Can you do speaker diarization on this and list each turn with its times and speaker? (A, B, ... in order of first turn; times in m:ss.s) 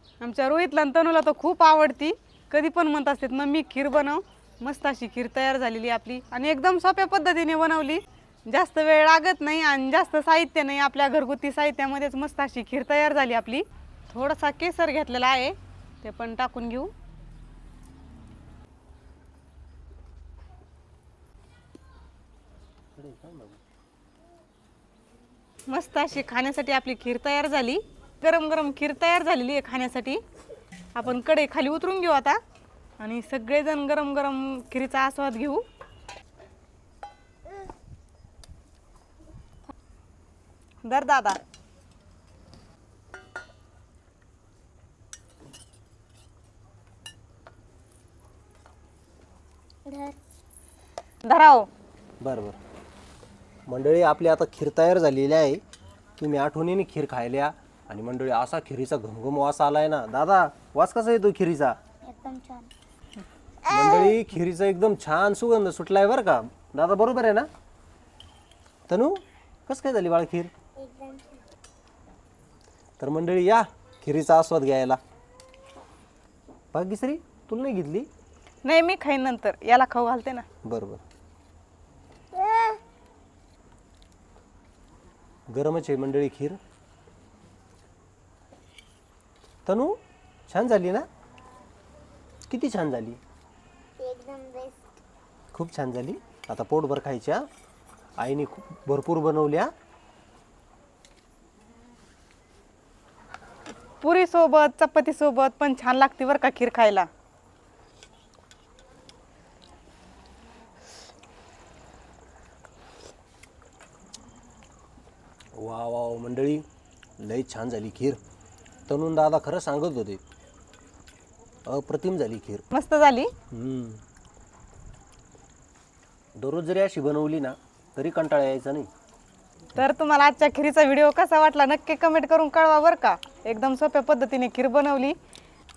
0:00.2-0:16.9 A
0:22.9-0:23.6 B
0:25.7-0:30.2 A
0:30.9-0:32.4 A
0:33.0-0:35.6 A
0:40.8-0:41.4 A
0:49.8-0:50.2 C
0:51.2-0:51.7 A
0:52.2-0:52.6 B
0:53.7-0:55.6 B
0:56.2-1:01.8 B
1:02.0-1:02.7 C
1:03.6-1:07.5 B
1:03.7-1:04.1 C
1:08.9-1:10.5 B
1:10.8-1:11.4 C
1:13.0-1:15.0 B
1:16.7-1:18.1 B
1:18.6-1:20.4 A
1:20.6-1:21.0 B
1:22.4-1:22.8 C
1:25.5-1:26.6 B
1:29.6-1:31.0 B
1:32.5-1:33.2 B
1:34.0-1:34.9 C
1:35.5-1:37.4 B
1:38.2-1:39.7 B
1:44.0-1:47.1 A
1:55.6-1:56.6 B
1:57.2-1:58.2 B
1:58.9-2:00.2 B
2:01.6-2:02.6 B
2:02.7-2:03.3 A
2:03.5-2:04.0 B
2:06.4-2:08.9 B
2:09.8-2:15.2 A